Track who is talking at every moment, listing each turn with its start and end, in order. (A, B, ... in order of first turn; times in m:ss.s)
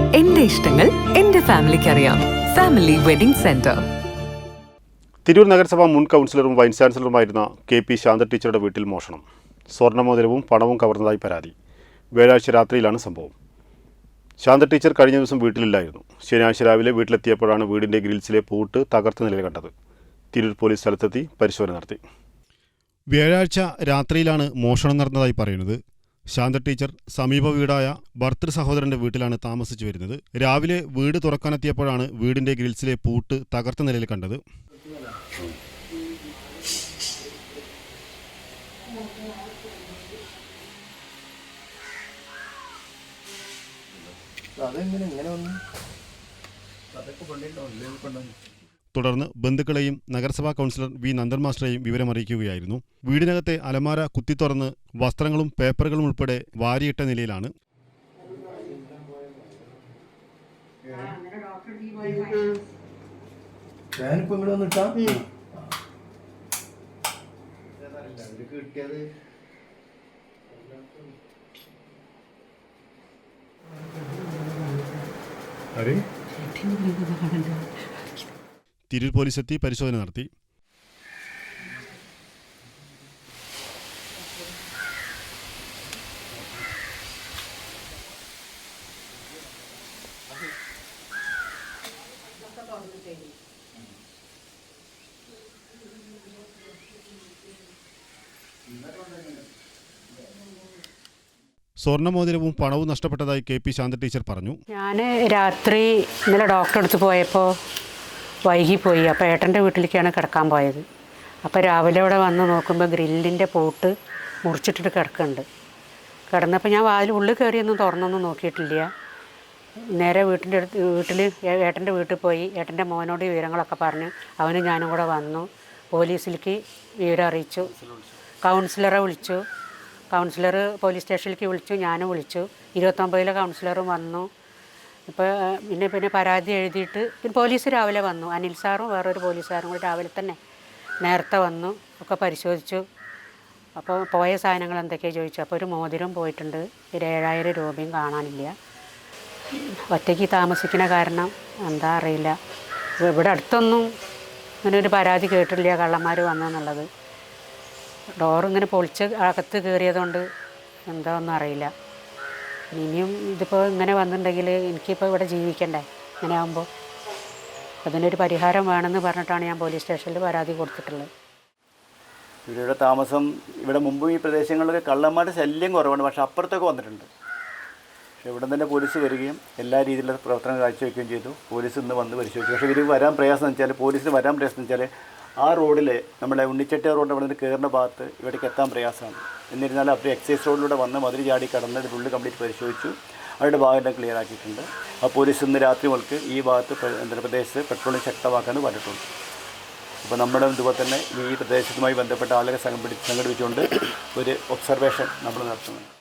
0:00.1-0:03.8 A
0:05.2-0:11.5 B
0:12.1-0:13.3 B
0:14.4-0:19.7 B
0:20.3-0:22.0 B
0:23.1-0:34.4 B
0:34.7-0:35.2 C
0:44.6-0:45.6 C
0:47.0-0:48.3 D
0:48.9-0:57.5 B
0:58.3-0:59.7 C
1:00.9-1:01.1 C
1:00.9-1:02.6 E
1:04.0-1:05.7 C
1:07.8-1:09.0 C
1:10.5-1:11.0 C
1:14.1-1:15.0 E
1:16.3-1:17.7 E
1:18.9-1:20.3 B
1:32.6-1:33.2 E
1:41.8-1:44.6 B
1:44.7-1:47.6 E
1:48.4-1:50.8 E
1:51.4-1:53.9 E
1:54.4-1:55.4 E
1:56.3-1:58.9 E
1:59.9-2:07.7 E
2:07.6-2:08.2 D
2:08.4-2:09.4 E
2:10.1-2:14.3 E
2:15.1-2:20.4 E
2:21.0-2:22.8 E
2:23.8-2:28.5 E
2:29.5-2:32.4 E
2:33.0-2:33.9 E
2:34.6-2:36.9 E
2:38.2-2:40.2 E
2:40.9-2:41.7 E
2:42.7-2:46.7 E
2:47.8-2:51.1 E
2:52.5-2:57.1 D
2:58.2-3:19.1 D
3:20.0-3:25.9 D